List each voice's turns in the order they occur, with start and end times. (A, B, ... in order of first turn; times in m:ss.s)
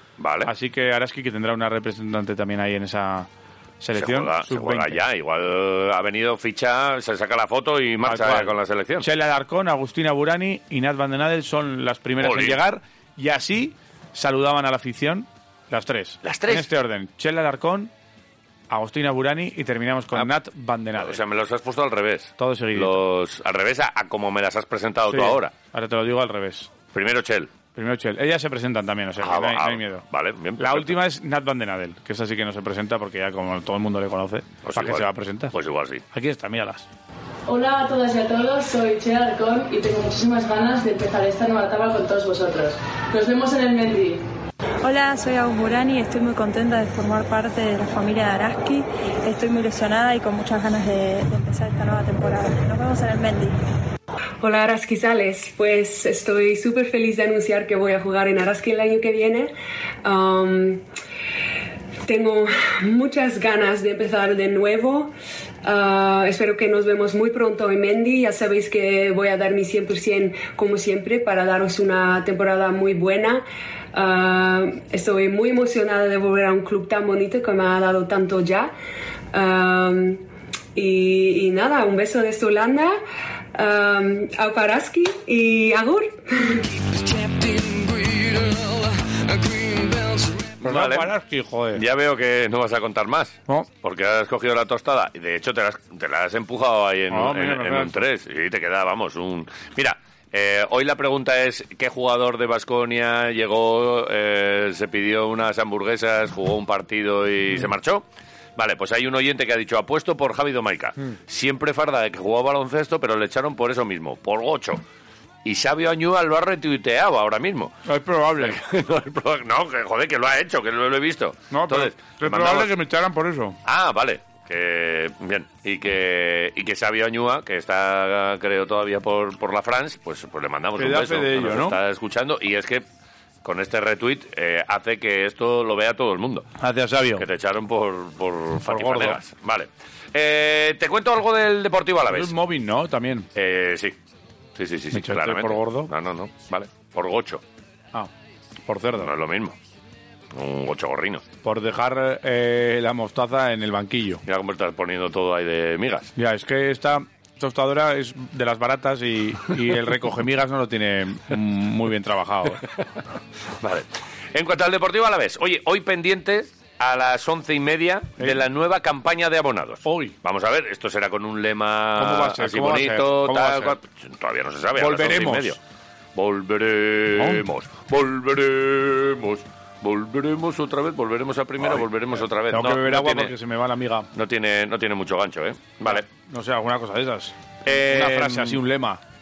0:00.2-0:00.5 A
0:00.4-0:03.3 B
0:03.8-0:05.0 B
0:03.9-0:09.1 A
0:08.0-0:17.9 B
0:12.2-0:12.6 A
0:16.2-0:16.7 A
0:18.7-0:21.2 B
0:21.0-0:25.5 A
0:22.4-0:23.0 B
0:25.1-0:26.7 B
0:26.9-0:27.5 A
0:27.8-0:30.0 B
0:29.2-0:30.9 A
0:30.6-0:35.5 B
0:34.6-0:36.0 A
0:36.1-0:36.9 B
0:37.5-0:44.2 C
0:44.8-0:53.5 D
0:54.4-0:59.5 E
1:00.0-1:00.8 E
1:02.1-1:05.1 E
1:05.6-1:13.4 E
1:13.9-1:18.7 E
1:19.3-1:20.2 E
1:20.8-1:23.0 E
1:23.5-1:26.7 E
1:26.9-1:31.1 A
1:30.6-1:31.8 B
1:31.8-1:48.0 A
1:37.1-1:38.0 B
1:48.6-1:54.8 A
1:55.4-1:57.8 A
1:57.8-1:58.6 B
1:58.4-2:02.7 A
2:01.5-2:03.6 B
2:03.6-2:12.8 A
2:10.8-2:11.8 B
2:13.4-2:16.5 A
2:16.6-2:17.2 B
2:17.2-2:22.3 A
2:18.6-2:19.2 B
2:22.1-2:23.3 B
2:23.3-2:24.0 A
2:24.6-2:27.4 A
2:24.9-2:25.9 B
2:28.7-2:29.1 B
2:29.0-2:29.5 A
2:30.3-2:31.2 A
2:31.4-2:34.2 B
2:34.2-2:36.1 A
2:36.2-2:42.6 B
2:43.6-2:55.6 A
2:49.8-2:50.1 B
2:52.0-2:53.8 B
2:54.8-2:55.6 B
2:56.1-3:03.3 A
2:57.2-2:57.4 B
3:02.5-3:04.1 B
3:04.1-3:06.0 A
3:05.8-3:09.0 B
3:07.6-3:08.6 A